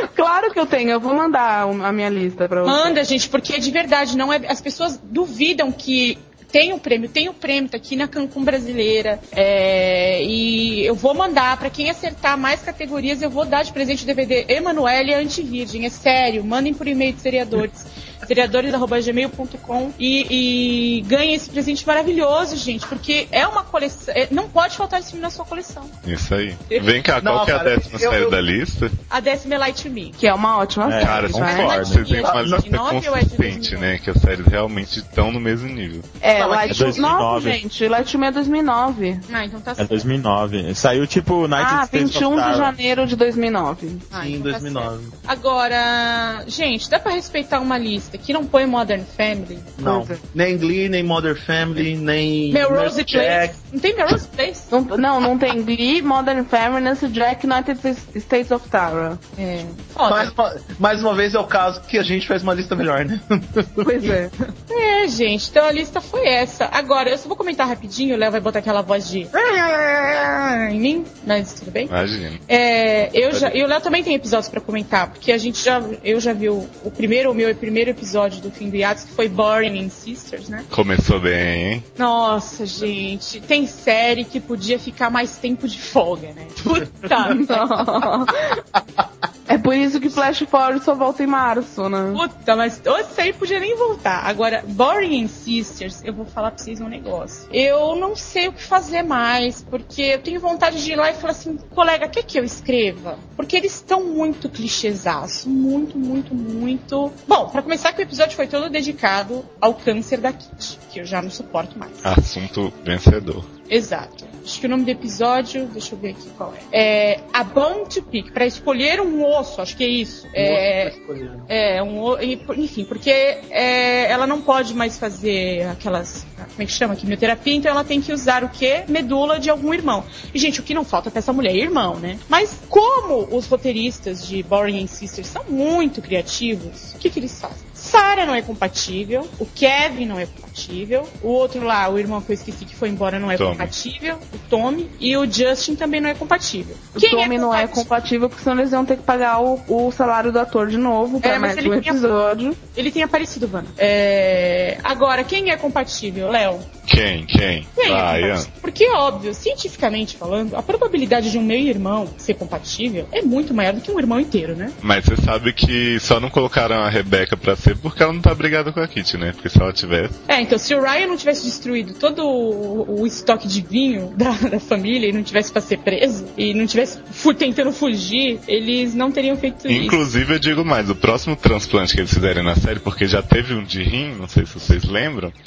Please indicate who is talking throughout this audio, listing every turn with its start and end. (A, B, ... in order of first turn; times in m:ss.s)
0:00.1-0:03.0 A
0:02.6-0:25.9 B
0:26.0-0:28.9 C
0:27.2-0:28.4 D
0:29.1-0:30.2 B
0:30.2-0:31.7 A
0:30.8-0:32.0 E
0:31.0-0:36.0 C
0:31.2-0:33.9 B
0:36.2-0:39.2 A
0:36.3-0:37.2 D
0:36.7-0:37.6 E
0:39.3-0:40.0 B
0:39.8-0:42.7 E
0:41.5-0:44.1 A
0:44.1-0:45.1 D
0:44.1-0:49.8 B
0:49.8-0:53.6 D
0:52.5-0:54.7 B
0:54.7-0:59.2 A
0:59.4-1:00.3 B
1:00.1-1:04.1 D
1:03.8-1:04.3 A
1:04.7-1:11.9 B
1:11.9-1:12.4 C
1:12.5-1:20.7 B
1:20.7-1:21.8 C
1:22.0-1:28.1 B
1:27.2-1:28.4 A
1:29.5-1:32.2 A
1:32.1-1:52.1 B
1:52.0-1:53.5 C
1:53.7-2:00.9 B
2:00.4-2:01.5 D
2:01.5-2:27.9 B
2:23.4-2:23.7 C
2:26.9-2:32.6 A
2:31.2-2:32.0 B
2:32.7-2:36.7 B
2:36.8-2:38.5 C
2:37.8-2:44.8 B
2:44.8-2:50.2 C
2:50.3-3:00.1 B
2:59.7-3:05.3 C